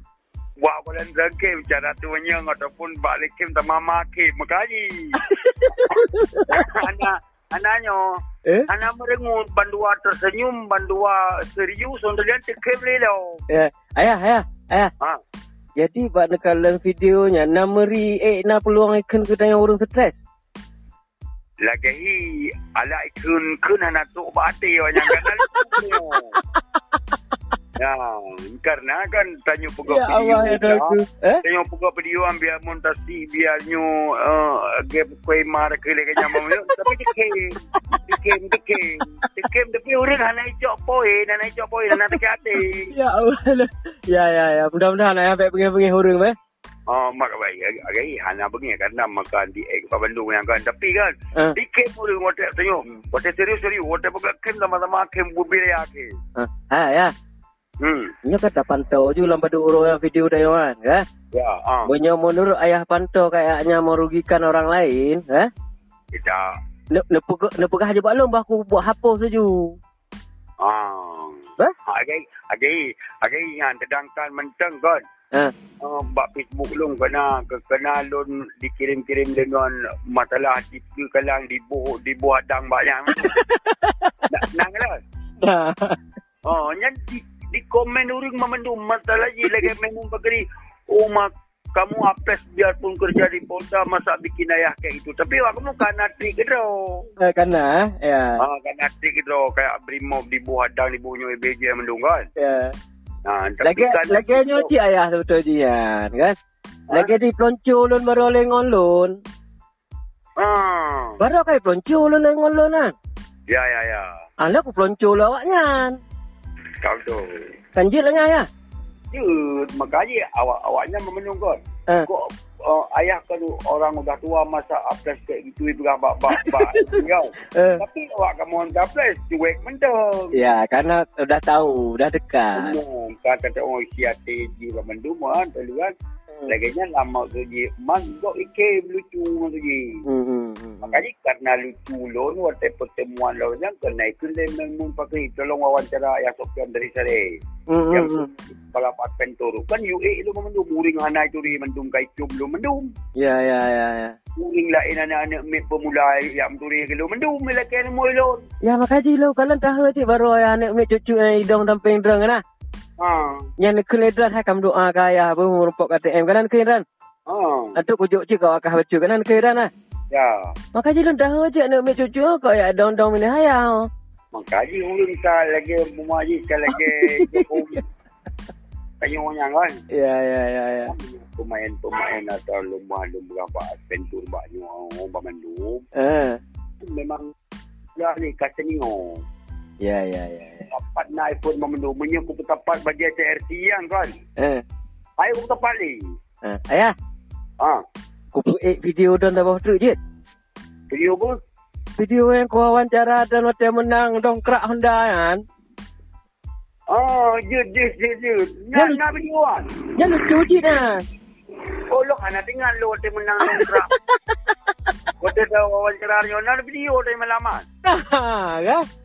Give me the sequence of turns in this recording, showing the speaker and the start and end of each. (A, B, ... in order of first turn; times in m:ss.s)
0:00.6-0:05.2 A
0:05.2-0:07.0 B
0:06.5-0:08.2 A
0:08.7-0:13.4 A
0:13.5-0:14.9 B
0:15.8-0:20.2 B
0:21.6-0:26.3 A
0:25.0-0:27.2 B
0:27.8-0:42.9 A
0:29.9-0:31.4 B
0:36.2-0:37.0 B
0:37.8-0:38.0 B
0:41.9-0:42.2 B
0:42.9-0:46.4 B
0:46.9-0:56.1 A
0:56.4-0:57.1 B
0:57.8-0:58.1 A
0:58.2-1:01.0 B
1:01.3-1:01.9 A
1:01.8-1:05.5 B
1:06.1-1:06.5 A
1:06.9-1:09.8 B
1:10.6-1:15.0 A
1:15.8-1:23.4 A
1:23.2-1:24.3 B
1:24.3-1:25.0 A
1:25.4-1:26.0 B
1:26.4-1:37.1 A
1:37.2-1:38.4 B
1:38.4-1:42.3 A
1:42.4-1:42.8 B
1:43.2-1:44.7 A
1:43.6-1:46.4 B
1:46.9-1:49.2 B
1:50.4-1:51.2 A
1:51.2-1:52.9 B
1:53.5-1:54.1 A
1:54.4-1:56.0 B
1:56.8-1:57.4 A
1:57.8-1:58.5 B
1:59.1-2:10.4 A
2:06.3-2:07.8 B
2:10.3-2:12.8 B
2:12.6-2:15.9 A
2:16.5-2:20.0 A
2:20.1-2:21.0 B
2:20.9-2:27.4 A
2:27.7-2:28.3 B
2:27.9-2:32.9 A
2:33.2-2:34.2 B
2:34.4-2:38.4 A
2:38.6-2:42.4 B
2:43.0-2:43.5 A
2:43.6-2:46.8 B
2:47.3-2:47.8 A
2:47.8-2:49.7 B
2:50.1-2:50.5 A
2:50.7-2:53.9 B
2:54.3-2:57.8 A
2:56.7-2:57.5 B
2:59.0-2:59.8 A
2:59.9-3:00.9 B
3:00.9-3:05.8 A
3:06.0-3:06.4 B
3:06.8-3:07.3 A
3:08.0-3:09.2 A
3:09.8-3:10.7 B
3:10.7-3:14.2 A
3:14.4-3:14.6 B
3:15.2-3:16.0 A
3:16.4-3:17.0 B
3:18.3-3:20.0 B
3:20.9-3:21.4 A
3:22.0-3:25.4 B
3:26.9-3:29.7 A
3:28.8-3:29.0 B
3:30.0-3:31.0 B
3:31.9-3:33.9 A
3:33.4-3:34.7 B
3:35.2-3:37.6 A
3:37.8-3:38.8 B